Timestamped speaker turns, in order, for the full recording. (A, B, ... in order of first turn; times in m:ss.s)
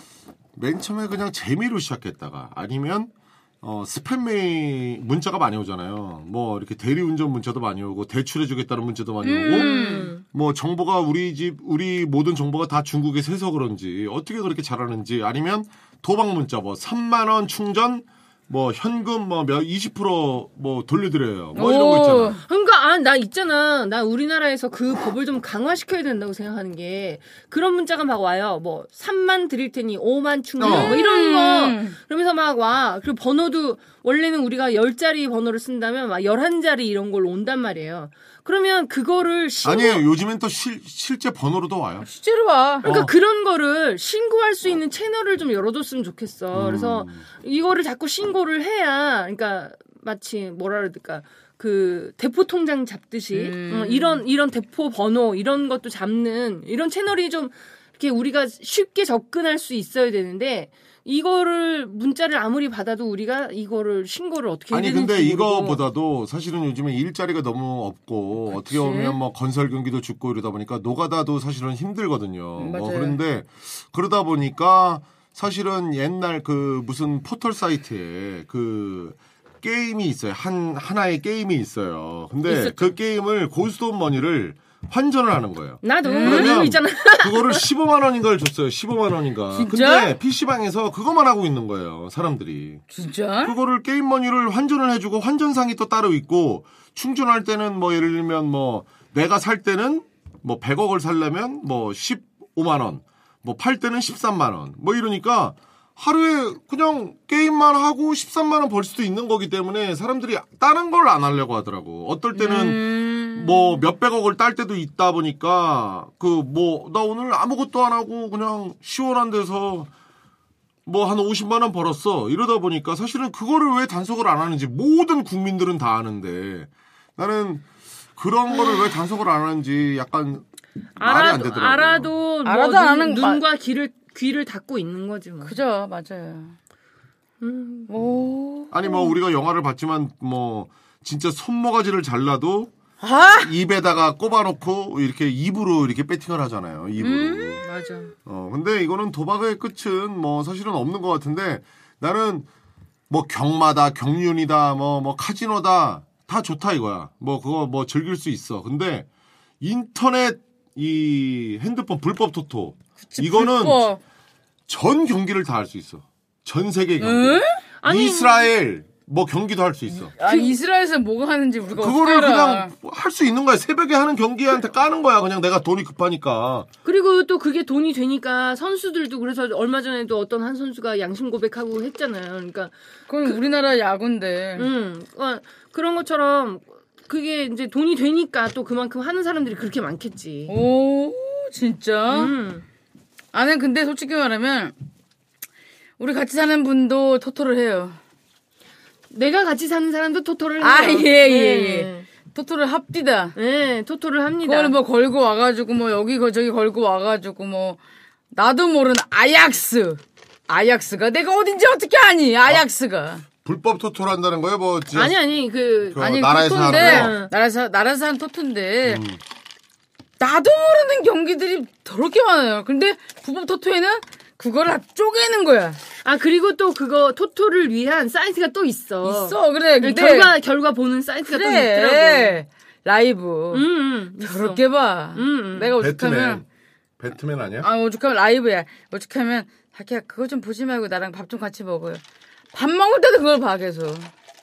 0:00.6-0:22.4 A
0:09.2-0:10.1 B
0:09.5-0:10.2 C
0:21.5-0:22.4 B
0:22.5-0:40.0 C
0:30.6-0:31.0 A
0:30.6-0:32.0 B
0:39.6-0:42.1 A
0:42.0-0:42.9 B
0:42.8-1:05.8 C
0:42.8-0:43.1 A
0:46.5-0:47.2 A
0:53.3-0:54.2 B
1:04.7-1:32.8 A
1:08.5-1:09.2 B
1:12.6-1:13.2 B
1:22.4-1:22.9 B
1:25.8-1:27.6 C
1:26.0-1:26.7 B
1:29.5-1:30.1 B
1:32.9-1:33.5 B
1:33.4-1:59.9 A
1:52.3-1:53.8 B
2:00.8-2:10.4 A
2:11.0-2:15.5 C
2:11.0-2:12.1 A
2:12.4-2:13.4 B
2:15.4-2:16.5 B
2:17.4-2:17.9 C
2:17.9-2:19.1 B
2:18.7-2:22.7 A
2:23.0-2:23.5 B
2:23.4-2:27.6 A
2:27.0-2:27.9 B
2:27.6-2:28.1 C
2:28.2-2:32.5 A
2:33.1-2:39.1 A
2:39.6-2:43.8 A
2:43.0-2:44.0 B
2:44.7-2:50.1 A
2:47.0-2:47.6 B
2:47.8-2:48.5 C
2:50.2-2:52.7 B
2:50.2-2:50.5 C
2:51.8-2:56.7 A
2:56.8-3:02.7 C
3:03.1-3:04.7 B
3:04.6-3:10.5 C
3:10.5-3:12.3 B
3:12.1-3:12.6 C
3:13.3-3:14.7 B
3:16.0-3:18.0 B
3:19.1-3:22.1 C
3:20.6-3:23.4 B
3:23.4-3:24.8 C
3:24.4-3:27.8 B
3:28.3-3:33.2 B
3:33.4-3:35.1 A
3:34.9-3:36.0 C
3:35.9-3:37.2 A
3:36.0-3:39.0 B
3:36.6-3:37.3 C
3:38.8-3:39.2 A
3:40.2-3:45.8 B
3:46.0-3:52.4 C
3:49.0-3:50.4 B
3:51.3-3:53.6 B
3:53.5-3:55.8 C
3:54.2-3:56.4 B
3:55.8-3:56.4 A
3:57.0-3:57.7 A
3:57.6-4:04.1 B